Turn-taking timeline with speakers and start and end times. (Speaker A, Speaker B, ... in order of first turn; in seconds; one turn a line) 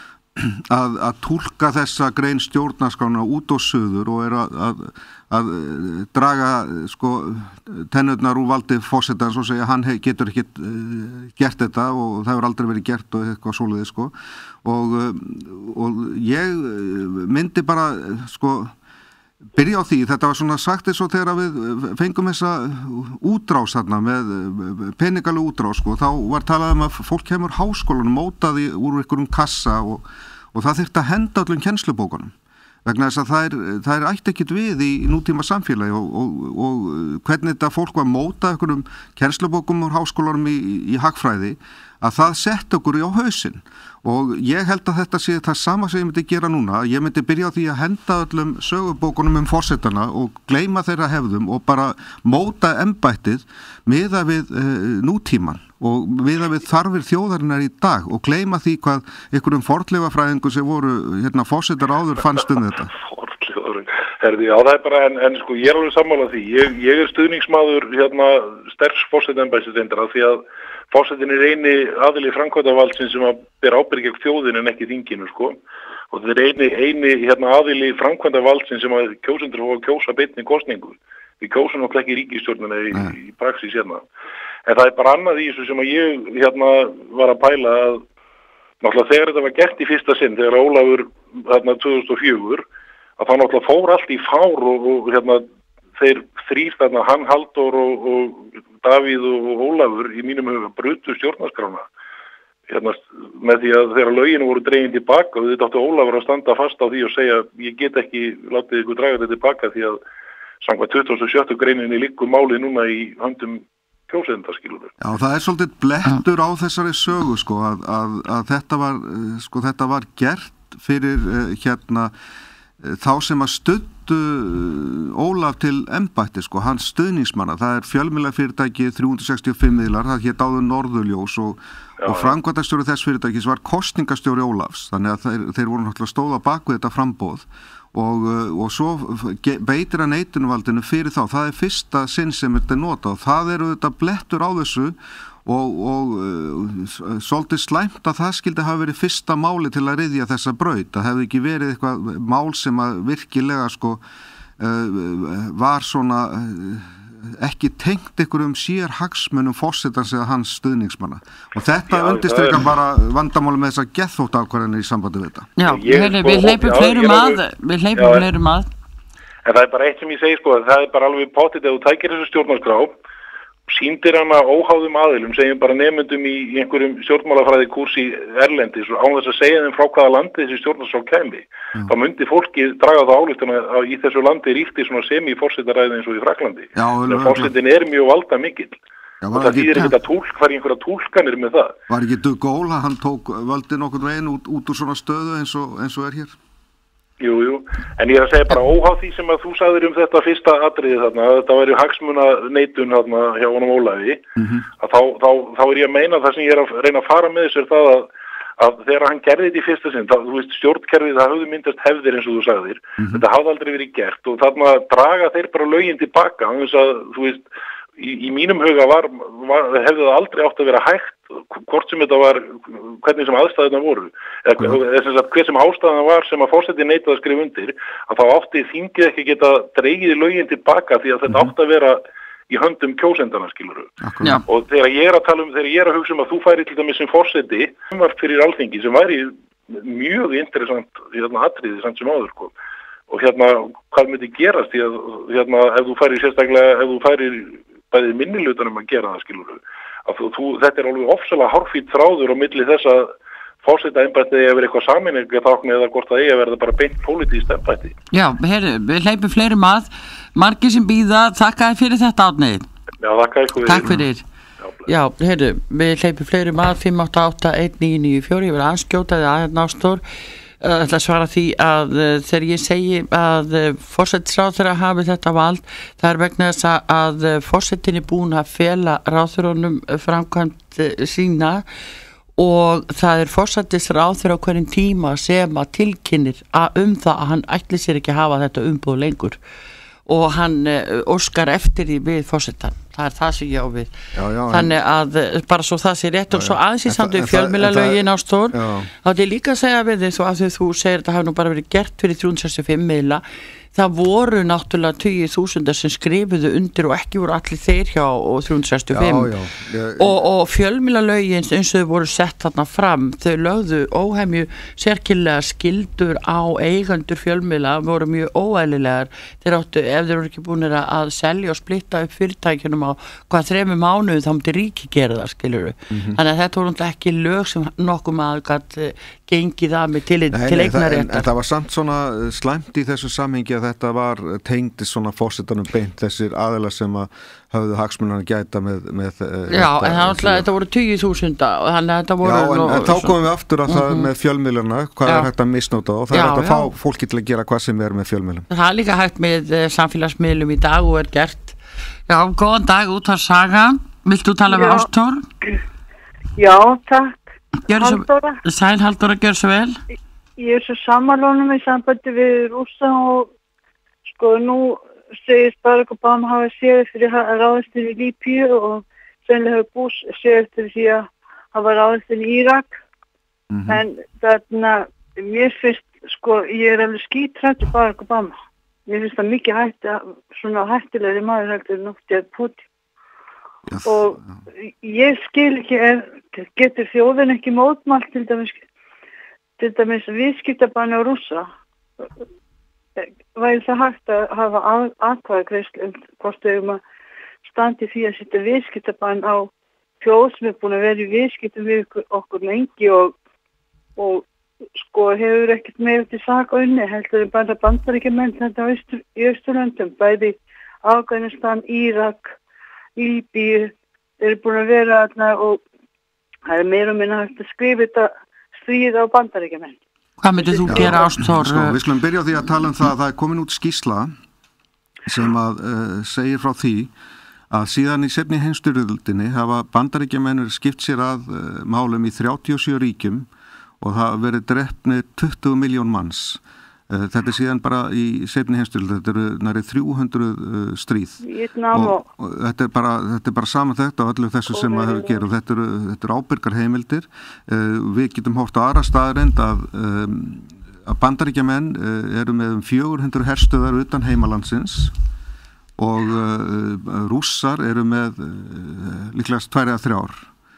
Speaker A: 0.3-18.7
Speaker A: 19.5-32.3
Speaker A: 32.8-62.9
Speaker B: 63.0-75.6
Speaker B: 76.1-84.0
Speaker B: 84.7-88.0
Speaker B: 88.8-92.6
Speaker B: 93.2-101.8
Speaker B: 102.7-110.0
Speaker B: 110.6-114.9
Speaker A: 115.0-122.1
Speaker A: 122.8-154.0
Speaker B: 132.0-132.3
Speaker A: 154.6-165.5
Speaker B: 161.9-162.6
Speaker C: 165.6-168.7
Speaker B: 165.6-167.4
Speaker B: 167.9-168.2
Speaker B: 169.4-172.9
Speaker B: 173.7-188.8
Speaker A: 186.8-187.5
Speaker A: 189.2-189.9
Speaker B: 189.3-191.8
Speaker A: 191.9-196.3
Speaker B: 197.2-204.2
Speaker A: 204.4-204.7
Speaker B: 204.8-217.5
Speaker B: 218.0-233.9
Speaker A: 234.0-234.4
Speaker B: 234.5-242.5
Speaker B: 243.1-257.9
Speaker C: 258.1-262.6
Speaker B: 263.0-264.0
Speaker C: 263.6-264.2
Speaker B: 264.6-264.9
Speaker C: 264.9-270.0
Speaker C: 270.6-281.6
Speaker C: 282.4-289.4
Speaker C: 290.1-293.9
Speaker A: 294.1-294.7
Speaker C: 294.5-309.3
Speaker A: 296.3-298.9
Speaker A: 308.9-310.1
Speaker C: 310.0-331.2
Speaker A: 325.9-326.2
Speaker A: 330.3-340.4
Speaker C: 339.5-343.1
Speaker A: 342.2-348.5
Speaker C: 343.7-344.1
Speaker C: 346.1-346.7
Speaker C: 348.5-351.6
Speaker C: 352.1-355.2
Speaker D: 354.5-354.9
Speaker D: 356.4-358.4
Speaker C: 357.7-359.8
Speaker D: 360.4-363.3
Speaker D: 364.1-372.7
Speaker A: 373.5-373.8
Speaker D: 373.7-378.3
Speaker D: 378.9-382.6
Speaker A: 383.7-384.2
Speaker D: 383.8-384.2
Speaker D: 384.8-388.6
Speaker D: 389.6-391.5
Speaker D: 393.0-396.8
Speaker D: 397.4-403.1
Speaker D: 404.0-404.2
Speaker D: 404.8-412.3
Speaker D: 413.0-415.6
Speaker D: 416.5-419.7
Speaker C: 420.2-421.8
Speaker D: 420.4-421.1
Speaker A: 420.7-424.1
Speaker A: 425.1-426.9
Speaker A: 427.5-433.3
Speaker A: 433.8-454.9
Speaker D: 441.2-442.0
Speaker D: 444.5-445.2
Speaker A: 455.8-460.3